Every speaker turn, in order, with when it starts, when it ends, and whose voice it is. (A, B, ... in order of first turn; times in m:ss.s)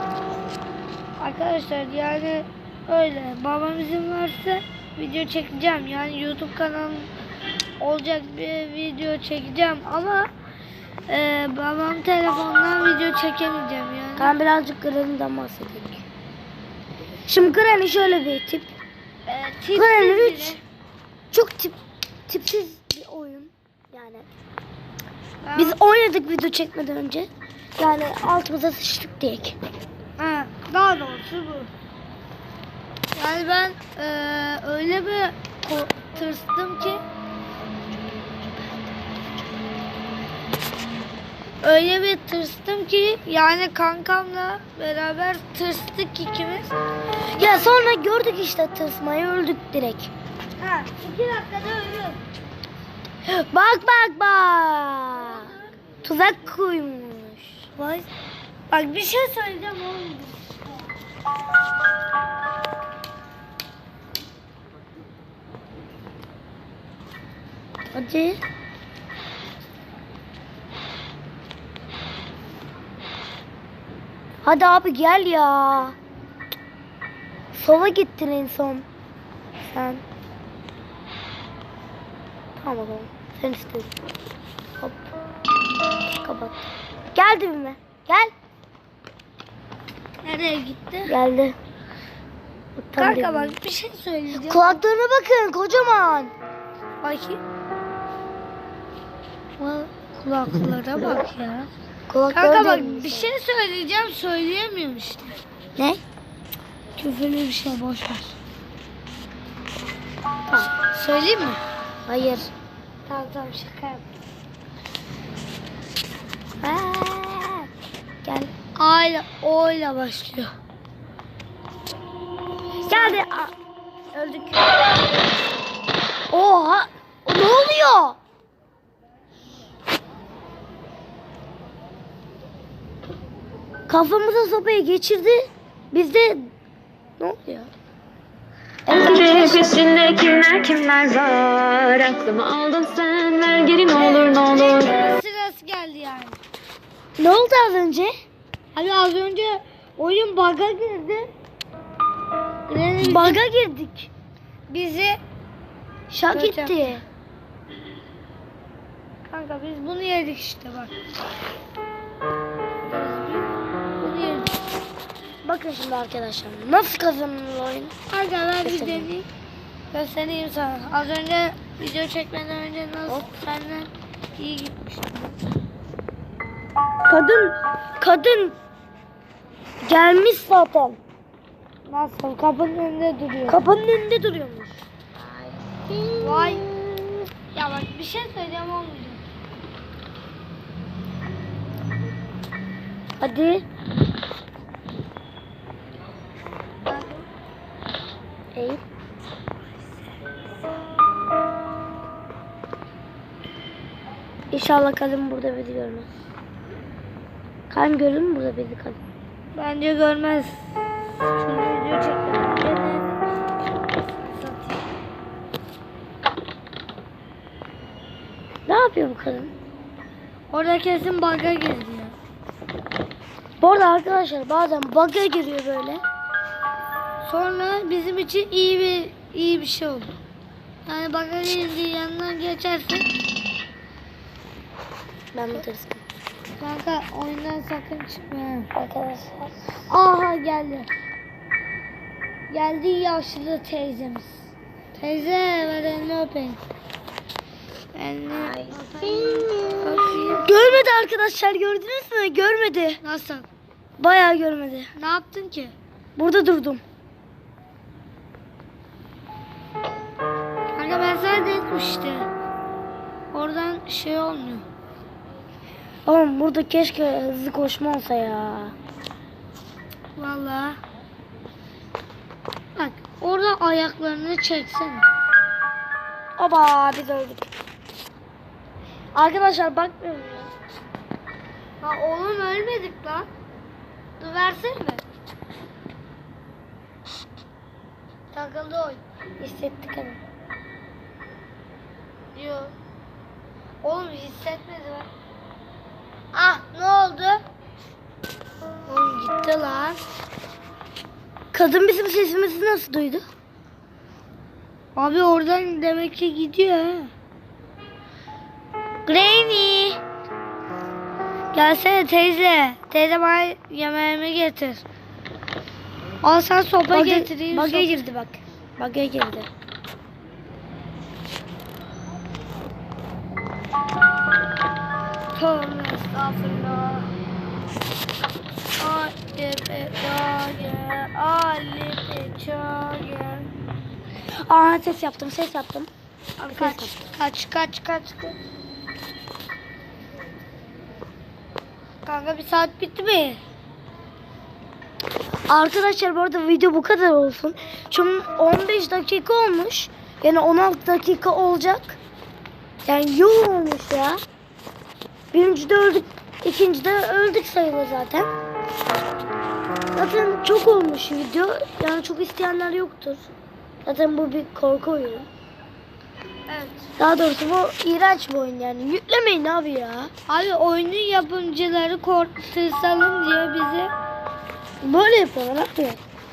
0:01.2-0:07.1 A
0:07.8-0:10.3 A
0:11.1-0:14.3 A
0:14.2-0:16.0 B
0:17.3-0:18.7 B
0:19.3-0:20.6 A
0:19.7-0:20.6 B
0:21.3-0:21.8 B
0:22.3-0:24.2 B
0:25.4-0:25.8 A
0:25.6-0:29.6 B
0:30.2-0:31.7 A
0:33.1-0:37.0 A
0:41.6-0:46.7 A
0:47.2-0:50.1 B
0:50.6-0:52.2 A
0:53.2-0:57.7 B
0:55.2-0:55.7 A
0:57.8-0:58.1 A
0:58.7-1:00.6 A
1:07.9-1:08.4 B
1:14.4-1:16.0 B
1:17.5-1:18.8 B
1:19.7-1:20.0 B
1:22.6-1:23.9 B
1:26.2-1:28.3 B
1:30.2-1:31.1 A
1:31.0-1:31.6 B
1:32.8-1:33.6 B
1:33.0-1:34.8 A
1:34.3-1:36.3 B
1:37.0-1:37.4 A
1:39.6-1:41.7 A
1:42.1-1:43.3 B
1:42.3-1:45.4 A
1:47.0-1:48.4 A
1:50.8-1:51.6 A
1:52.1-1:52.5 B
1:53.1-1:54.0 A
1:56.6-1:57.7 B
1:58.2-1:58.5 B
1:58.8-2:00.5 A
2:02.9-2:03.2 A
2:02.9-2:03.5 B
2:04.1-2:04.8 B
2:06.3-2:08.2 B
2:13.9-2:16.5 B
2:17.2-2:17.7 B
2:18.8-2:19.8 B
2:19.2-2:24.6 C
2:23.9-2:26.4 A
2:27.2-2:28.1 B
2:28.7-2:31.3 A
2:32.7-2:33.4 A
2:33.0-2:34.1 B
2:34.7-2:35.2 A
2:36.1-2:37.0 B
2:36.3-2:37.0 A
2:39.3-2:40.9 A
2:42.8-2:44.6 A
2:45.4-2:47.9 B
2:48.1-2:49.3 A
2:48.6-2:49.1 B
2:49.9-2:55.4 A
2:57.1-2:58.6 B
2:59.8-3:01.0 B
3:01.9-3:03.6 A
3:03.5-3:04.8 B
3:05.8-3:07.2 B
3:06.2-3:06.6 A
3:07.5-3:09.2 A
3:13.2-3:13.6 B
3:16.8-3:17.3 A
3:18.5-3:18.8 B
3:24.5-3:26.1 B
3:27.7-3:29.0 B
3:29.5-3:34.8 A
3:38.7-3:39.5 B
3:40.5-3:42.1 A
3:43.6-3:46.0 B
3:47.2-3:50.1 A
3:50.8-3:53.1 A
3:55.3-3:56.0 B
3:56.6-3:58.7 A
3:58.7-3:59.8 B
3:59.9-4:00.9 A
4:02.5-4:06.6 A
4:07.9-4:10.8 A
4:08.7-4:09.5 B
4:10.3-4:13.0 B
4:13.0-4:13.5 A
4:14.0-4:14.9 B
4:14.9-4:15.7 A
4:16.2-4:16.8 B
4:20.7-4:22.3 A
4:23.3-4:24.6 A
4:26.0-4:28.7 B
4:30.2-4:30.8 A
4:32.8-4:35.1 A
4:36.4-4:37.5 B
4:39.1-4:40.5 B
4:41.8-4:43.3 A
4:44.2-4:45.0 A
4:48.3-4:49.0 A
4:49.4-4:50.2 B
4:52.3-4:52.7 A
4:53.8-4:55.1 A
4:56.3-4:57.4 A
4:58.9-5:00.0 A
5:01.5-5:03.2 B
5:05.0-5:07.1 A
5:09.1-5:10.0 A
5:11.5-5:14.8 A
5:16.2-5:18.0 A
5:16.9-5:19.5 B
5:25.3-5:27.1 A
5:28.8-5:33.5 A
5:34.4-5:35.9 B
5:36.4-5:38.4 A
5:36.5-5:36.9 B
5:42.0-5:43.4 A
5:45.5-5:52.0 B
5:52.8-5:54.2 B
5:55.3-5:58.3 B
5:59.9-6:03.3 B
6:03.8-6:05.3 B
6:06.5-6:06.9 A
6:07.0-6:10.1 B
6:10.3-6:13.9 A
6:14.8-6:16.0 B